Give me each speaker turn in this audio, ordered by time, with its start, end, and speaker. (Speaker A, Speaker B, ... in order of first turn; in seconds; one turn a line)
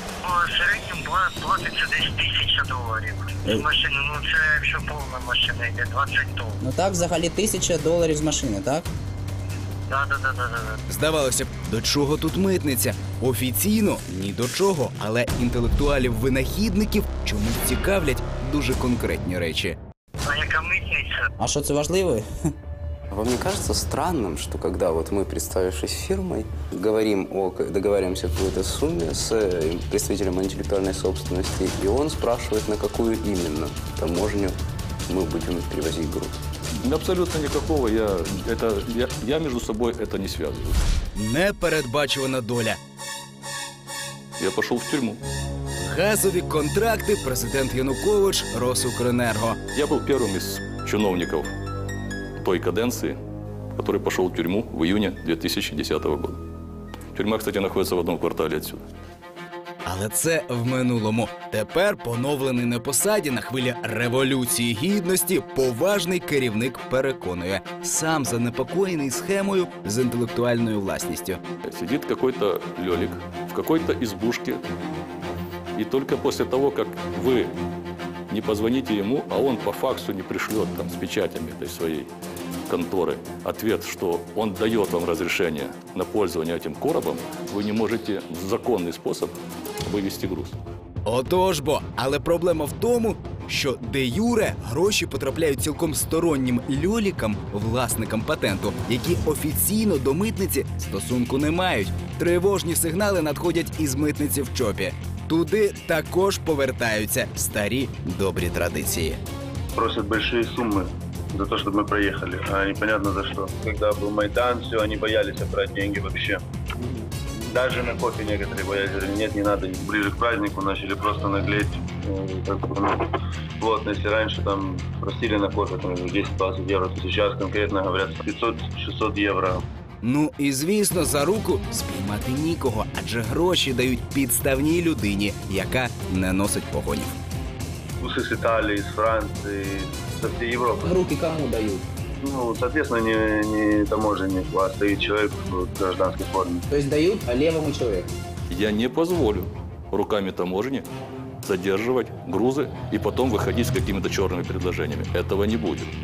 Speaker A: 0.2-6.7
Speaker B: 6.6-8.9
Speaker A: 9.9-10.8
Speaker C: 10.9-19.8
Speaker A: 20.2-21.3
Speaker B: 21.4-22.3
Speaker D: 23.1-34.6
Speaker D: 35.1-36.4
Speaker E: 36.8-40.8
Speaker C: 41.1-42.8
Speaker E: 44.4-45.2
Speaker C: 45.8-49.6
Speaker E: 49.7-51.5
Speaker E: 52.4-53.2
Speaker E: 53.8-56.4
Speaker E: 57.1-58.8
Speaker C: 59.9-71.4
Speaker E: 71.6-74.6
Speaker E: 75.8-77.5
Speaker E: 78.3-82.1
Speaker E: 82.7-90.6
Speaker C: 91.0-109.2
Speaker F: 109.8-116.4
Speaker F: 117.4-123.1
Speaker F: 123.6-129.6
Speaker C: 130.0-137.2
Speaker F: 138.0-141.0
Speaker B: 140.9-141.8
Speaker F: 142.2-146.7
Speaker B: 146.7-148.1
Speaker E: 148.5-150.9
Speaker E: 151.4-155.9